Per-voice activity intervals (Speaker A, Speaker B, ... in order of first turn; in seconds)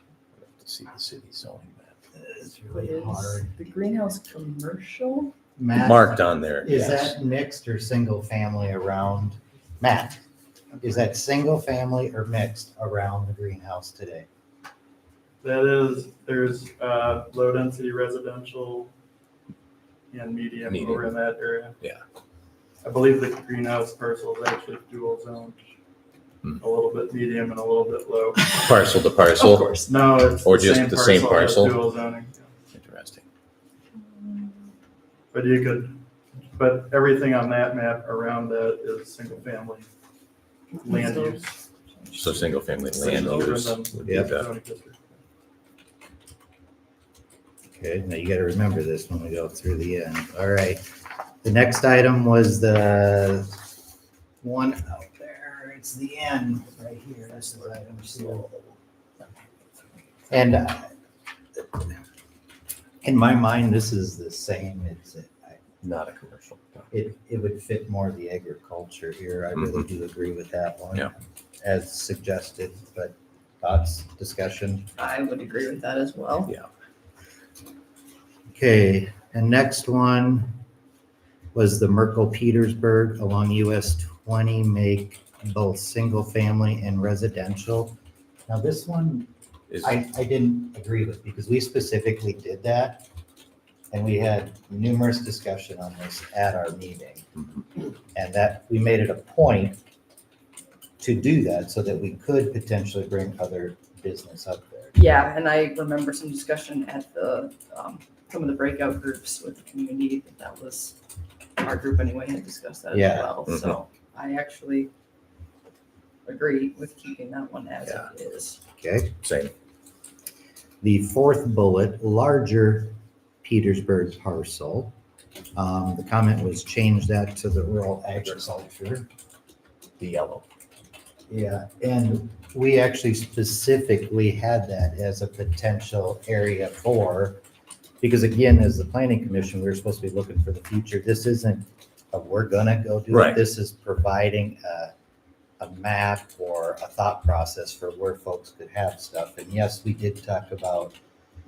Speaker A: 0.4-1.9, 5.7-7.2, 20.7-21.1, 28.5-29.8, 30.4-31.8, 32.7-33.2, 42.2-44.5, 65.8-66.9, 113.5-113.8, 119.2-119.5, 130.0-130.4, 143.1-143.4
Speaker B: 2.1-3.6, 5.6-10.2, 10.8-14.3, 47.7-50.8, 51.4-53.6, 54.4-58.7, 60.3-60.9, 61.6-62.0, 63.0-65.6, 66.9-74.9, 78.5-80.6, 81.5-88.0, 88.5-89.3, 89.8-93.0, 93.9-97.3, 98.1-99.8, 101.0-105.0, 112.9-113.4, 118.8-119.2, 120.8-125.0, 125.6-129.1, 131.3-137.4, 138.0-144.9, 145.6-151.0
Speaker C: 2.7-5.3, 29.4-30.2, 34.2-34.5, 40.9-41.4, 42.0-42.5, 75.0-76.5, 105.0-111.0, 111.6-114.9, 116.2-118.6
Speaker D: 10.7-11.0, 15.4-18.9, 20.1-21.8, 22.8-25.7, 26.6-28.5, 29.9-32.5, 35.3-36.0, 36.5-39.9, 40.8-41.5, 42.9-45.2